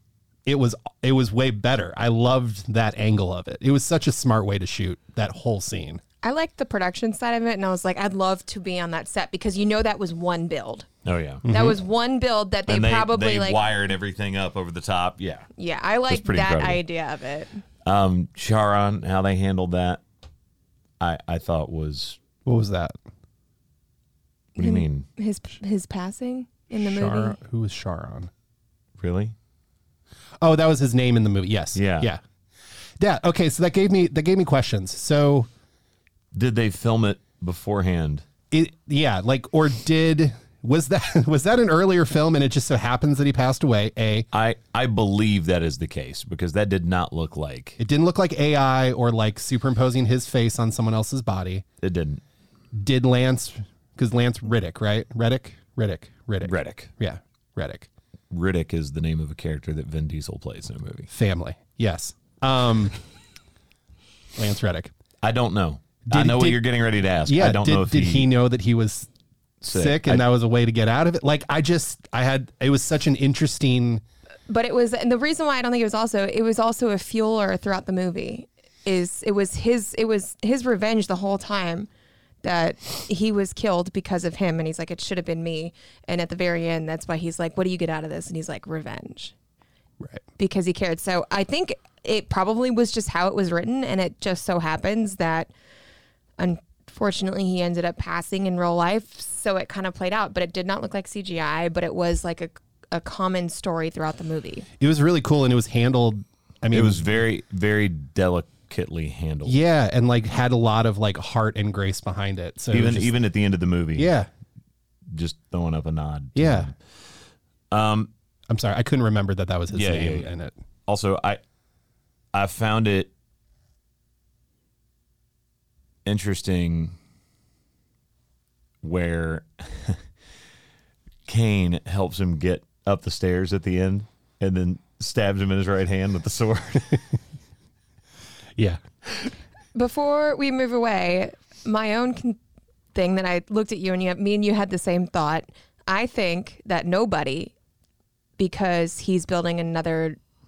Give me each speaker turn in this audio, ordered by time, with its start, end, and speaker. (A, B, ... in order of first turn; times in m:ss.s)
0:00.4-0:06.0 A
0:06.2-0:10.9 B
0:11.0-0:11.4 C
0:11.4-0:11.8 A
0:11.4-0:13.6 B
0:12.7-0:15.5 C
0:15.6-0:17.6 B
0:16.1-0:16.8 C
0:17.8-0:20.0 C
0:21.0-0:22.2 C
0:22.4-0:22.9 A
0:24.6-0:27.4 B
0:24.6-0:25.0 C
0:26.8-0:28.3 A
0:29.0-0:29.3 C
0:30.4-0:32.2 A
0:31.7-0:32.1 C
0:33.0-0:35.5 A
0:36.3-0:38.2 C
0:38.5-0:44.3 A
0:44.3-0:47.8 C
0:47.8-0:51.6 A
0:51.8-0:52.2 C
0:52.7-0:57.9 A
0:56.4-0:56.9 C
0:58.3-1:01.1 C
1:01.1-1:03.0 A
1:04.4-1:04.9 A
1:05.2-1:08.3 C
1:06.1-1:06.6 A
1:07.2-1:09.1 A
1:09.6-1:10.2 C
1:09.7-1:14.0 A
1:14.5-1:21.9 B
1:22.4-1:29.3 B
1:30.4-1:35.5 B
1:36.4-1:44.6 B
1:44.8-1:47.1 A
1:46.7-1:49.6 C
1:49.4-1:53.1 A
1:52.7-1:54.1 C
1:54.0-1:54.3 A
1:55.1-1:56.8 C
1:56.3-1:56.7 A
1:57.7-1:58.1 C
1:58.5-2:00.5 A
1:59.7-2:00.3 C
2:00.9-2:01.4 C
2:02.3-2:03.1 C
2:06.0-2:06.9 C
2:08.8-2:10.0 C
2:11.2-2:17.0 C
2:19.7-2:22.4 B
2:22.9-2:27.5 B
2:28.4-2:30.2 B